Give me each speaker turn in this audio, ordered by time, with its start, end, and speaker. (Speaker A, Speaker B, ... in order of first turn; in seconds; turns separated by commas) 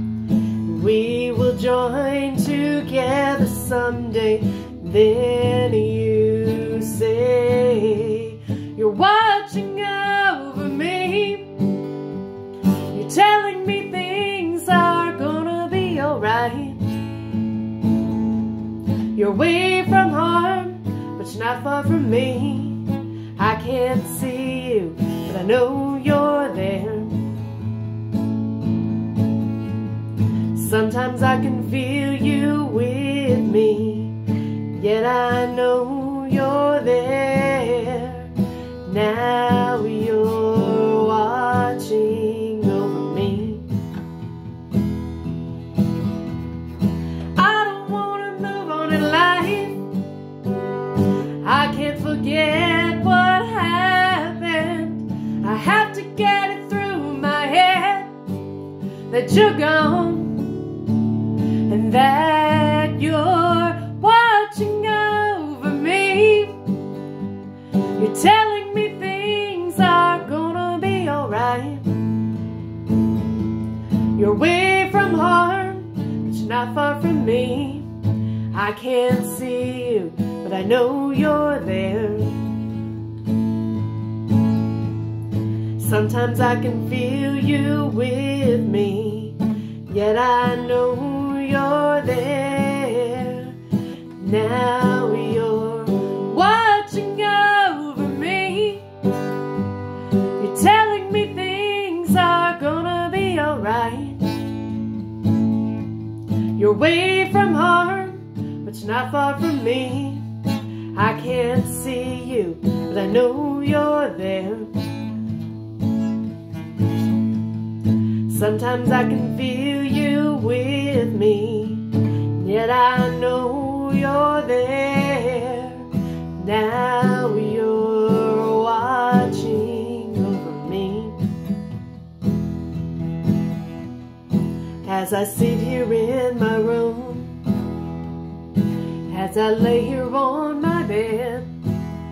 Speaker A: 0.6-11.9, Speaker A: 12.8-16.9, Speaker A: 19.1-27.2, Speaker A: 30.5-43.7, Speaker A: 47.4-50.0, Speaker A: 51.3-58.1, Speaker A: 59.1-66.6, Speaker A: 67.9-72.1, Speaker A: 74.1-77.9, Speaker A: 78.5-82.4, Speaker A: 85.8-93.6, Speaker A: 94.2-98.9, Speaker A: 100.2-104.4, Speaker A: 106.5-110.3, Speaker A: 110.9-114.8, Speaker A: 118.2-131.3, Speaker A: 134.8-137.4, Speaker A: 139.1-141.6